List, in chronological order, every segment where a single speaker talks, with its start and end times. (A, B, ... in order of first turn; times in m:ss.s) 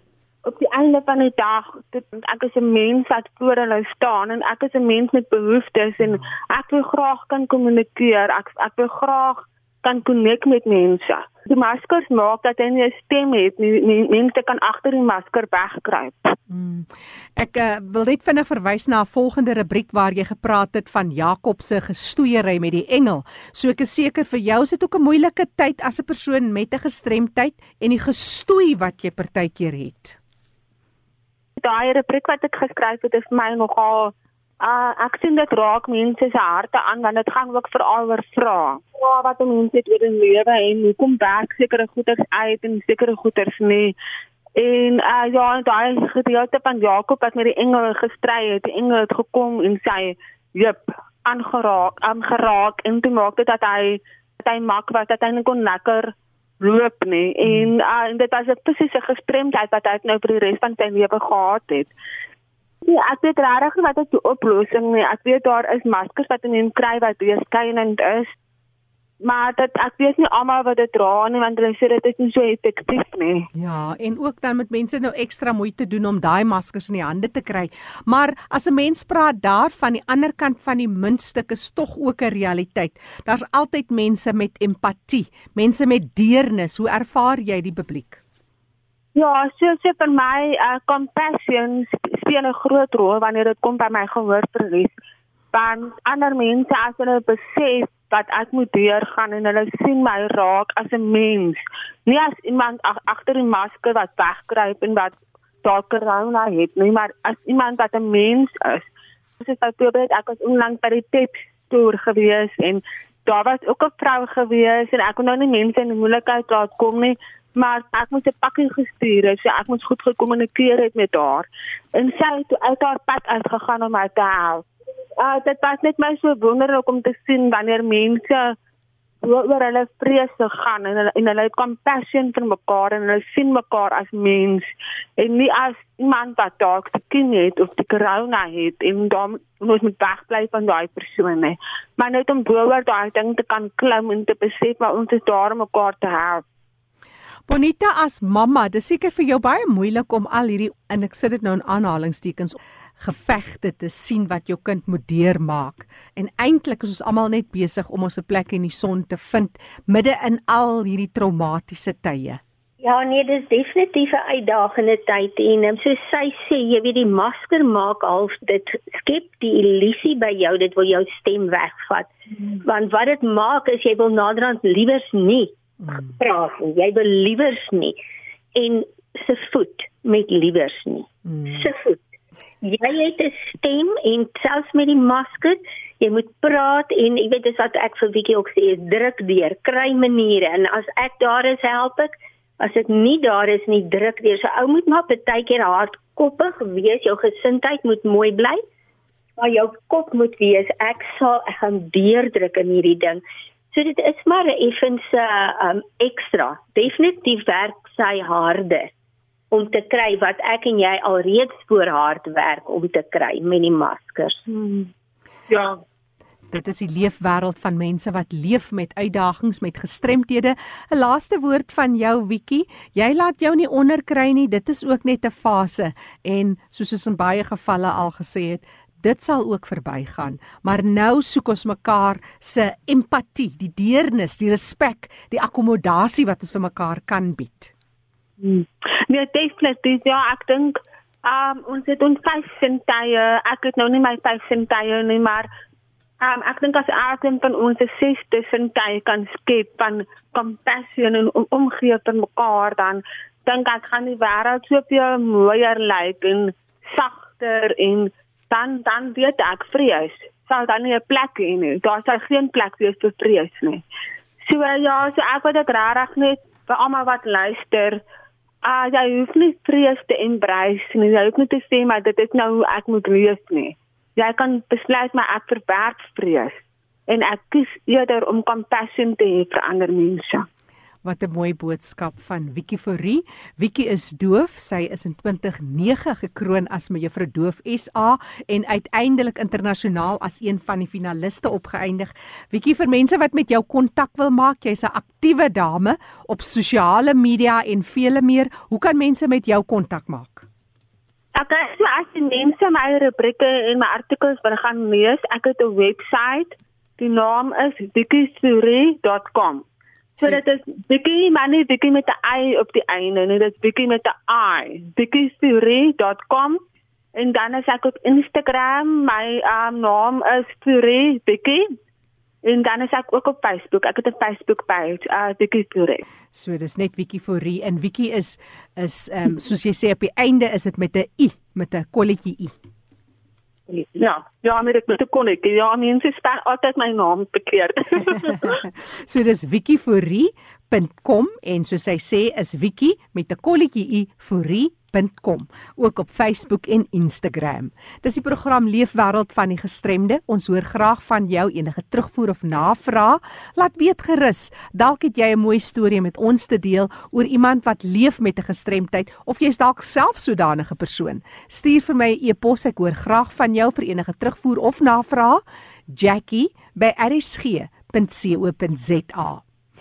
0:00.4-0:16.4 A
0:06.0-0:06.3 B
0:16.5-0:30.2 B
0:31.6-0:44.0 A
0:44.6-1:01.9 A
1:02.8-1:08.4 A
1:09.2-1:13.5 A
1:13.6-1:28.2 B
1:29.2-1:34.9 A
1:35.5-1:48.9 A
1:49.4-2:04.6 A
2:05.2-2:08.6 A
2:09.2-2:26.4 A
2:27.5-2:42.4 B
2:42.8-2:55.6 C
2:56.2-2:58.0 C
2:58.6-3:02.0 C
3:01.4-3:01.7 B
3:02.6-3:18.6 C
3:19.4-3:28.9 C
3:29.5-3:34.4 C
3:34.5-3:34.9 A
3:35.5-3:35.8 A
3:36.5-3:57.7 B
3:58.4-4:05.5 A
4:06.2-4:23.8 A
4:24.4-4:28.0 A
4:28.6-4:40.5 A
4:41.0-5:00.5 B
5:01.4-5:09.6 A
5:10.2-5:16.6 A
5:17.2-5:21.7 A
5:22.4-5:26.0 A
5:26.3-5:32.6 B
5:33.7-5:38.6 A
5:38.1-6:09.4 B